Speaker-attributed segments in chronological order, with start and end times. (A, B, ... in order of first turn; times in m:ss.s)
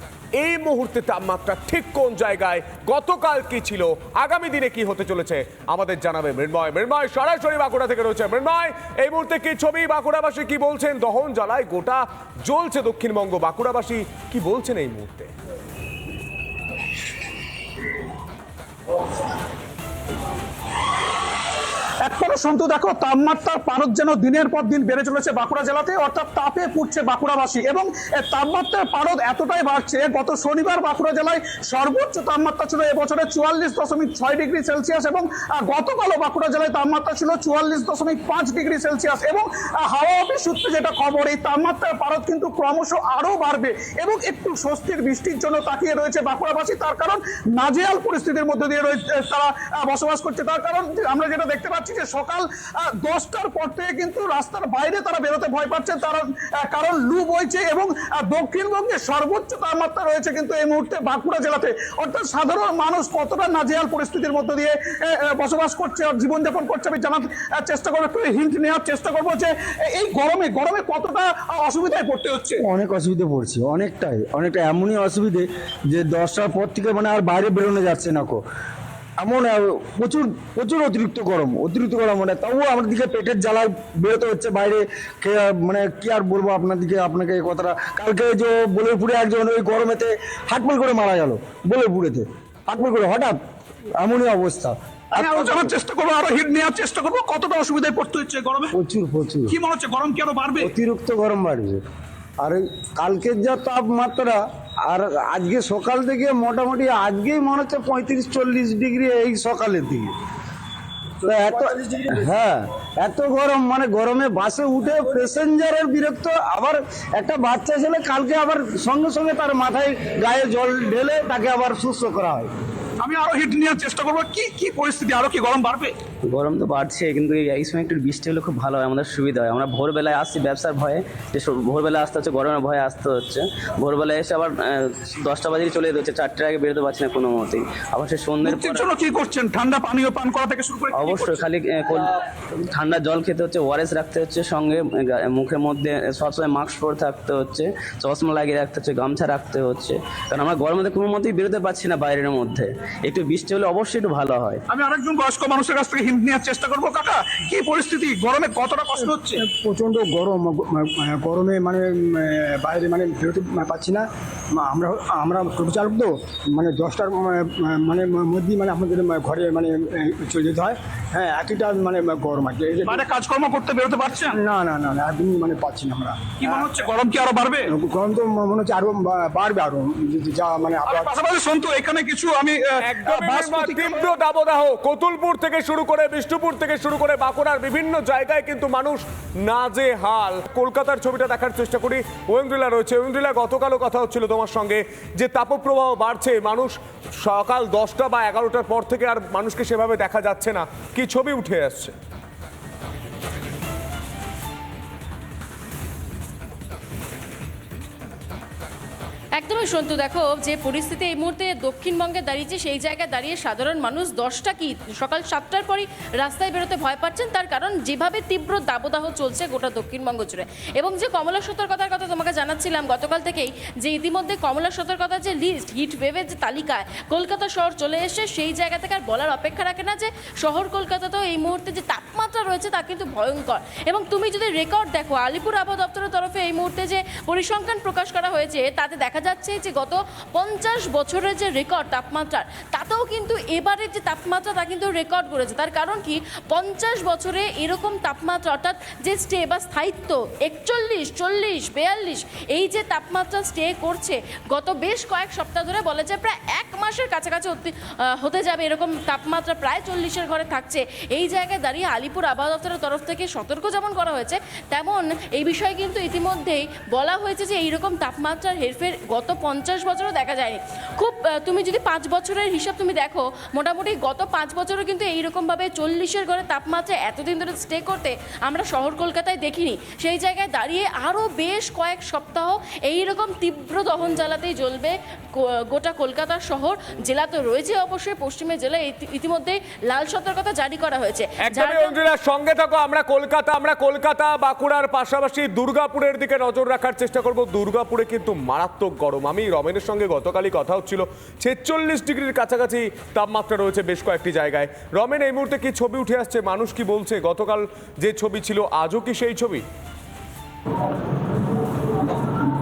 0:00.4-0:15.3 A
0:22.0-1:12.6 B
1:12.6-1:18.4 C
1:19.2-1:33.4 C
1:34.0-1:34.7 C
1:35.1-1:38.7 B
1:38.7-1:39.6 C
1:39.5-1:40.7 B
1:40.6-1:41.8 C
1:42.4-1:50.1 C
1:51.2-2:02.5 C
2:03.0-2:05.9 B
2:06.3-2:18.9 D
2:18.4-2:21.5 B
2:20.9-2:22.1 D
2:22.7-2:34.6 D
2:34.7-2:39.4 B
2:39.0-2:44.0 E
2:44.6-2:53.0 E
2:52.9-2:54.4 B
2:54.3-2:56.7 E
2:56.4-2:57.7 B
2:57.8-3:01.1 E
3:00.8-3:04.1 B
3:02.8-3:21.9 A
3:29.4-4:52.0 F
4:51.4-5:09.6 A